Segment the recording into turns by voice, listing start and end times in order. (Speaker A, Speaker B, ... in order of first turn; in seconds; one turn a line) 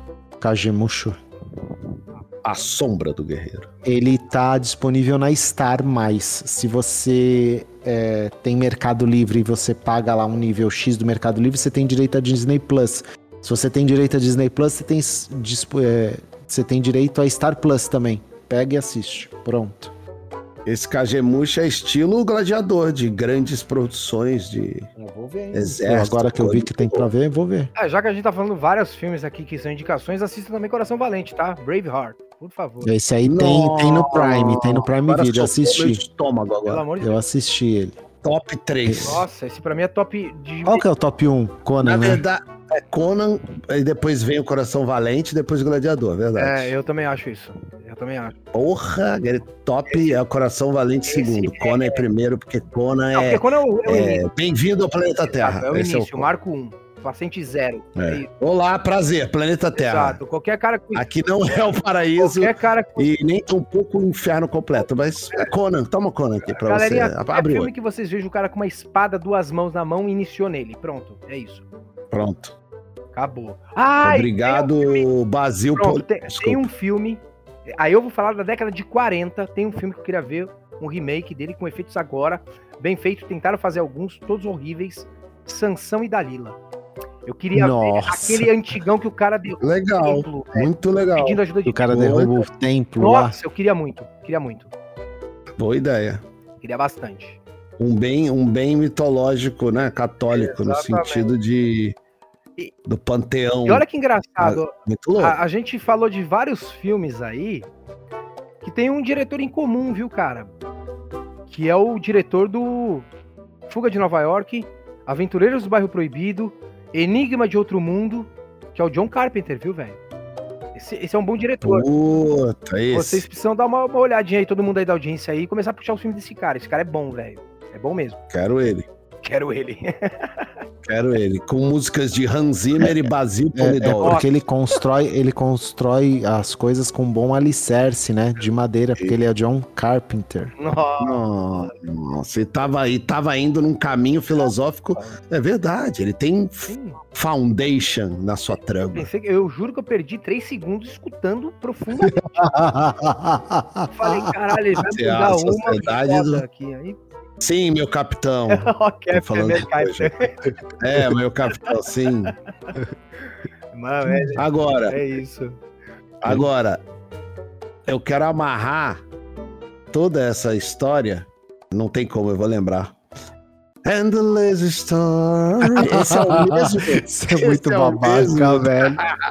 Speaker A: 0.4-1.2
Speaker B: 2.4-3.7
Speaker A: 3.9-19.9
Speaker B: 20.7-24.9
Speaker A: 25.0-27.7
Speaker B: 25.5-27.1
Speaker C: 27.8-32.9
Speaker A: 32.8-36.0
Speaker B: 33.2-36.9
Speaker C: 36.7-37.2
Speaker A: 37.0-38.0
Speaker B: 38.2-39.3
Speaker A: 38.9-39.2
Speaker C: 39.0-40.9
Speaker A: 40.7-42.2
Speaker B: 41.8-46.7
Speaker C: 46.4-48.4
Speaker B: 48.5-56.3
Speaker C: 51.1-52.0
Speaker C: 53.1-54.2
Speaker C: 55.3-58.3
Speaker B: 58.0-60.2
Speaker C: 59.7-61.1
Speaker B: 61.0-67.7
Speaker C: 62.2-63.1
Speaker C: 66.5-71.6
Speaker B: 72.1-72.5
Speaker C: 73.2-75.1
Speaker B: 74.0-76.7
Speaker C: 75.8-86.6
Speaker C: 87.3-92.2
Speaker A: 87.5-88.5
Speaker B: 89.6-92.3
Speaker A: 91.7-93.4
Speaker C: 93.0-94.7
Speaker B: 95.6-96.2
Speaker C: 96.6-97.4
Speaker B: 97.8-102.0
Speaker C: 100.3-101.3
Speaker B: 102.9-103.8
Speaker C: 103.7-107.7
Speaker B: 104.4-105.4
Speaker C: 108.6-110.5
Speaker C: 111.5-113.1
Speaker C: 113.7-120.0
Speaker C: 120.8-121.9
Speaker B: 121.6-123.3
Speaker C: 122.9-128.2
Speaker B: 128.3-128.9
Speaker C: 129.2-130.5
Speaker B: 130.8-134.2
Speaker A: 133.6-140.5
Speaker C: 134.0-134.3
Speaker C: 140.6-141.2
Speaker B: 141.0-149.1
Speaker C: 146.7-147.0
Speaker C: 148.9-152.6
Speaker A: 152.2-154.3
Speaker C: 153.9-157.0
Speaker B: 154.8-156.4
Speaker B: 157.4-160.1
Speaker C: 158.5-160.5
Speaker B: 160.8-162.3
Speaker C: 162.5-165.6
Speaker B: 164.4-165.0
Speaker B: 166.2-166.8
Speaker B: 167.9-169.0
Speaker B: 169.9-172.9
Speaker B: 173.8-179.1
Speaker A: 175.6-179.0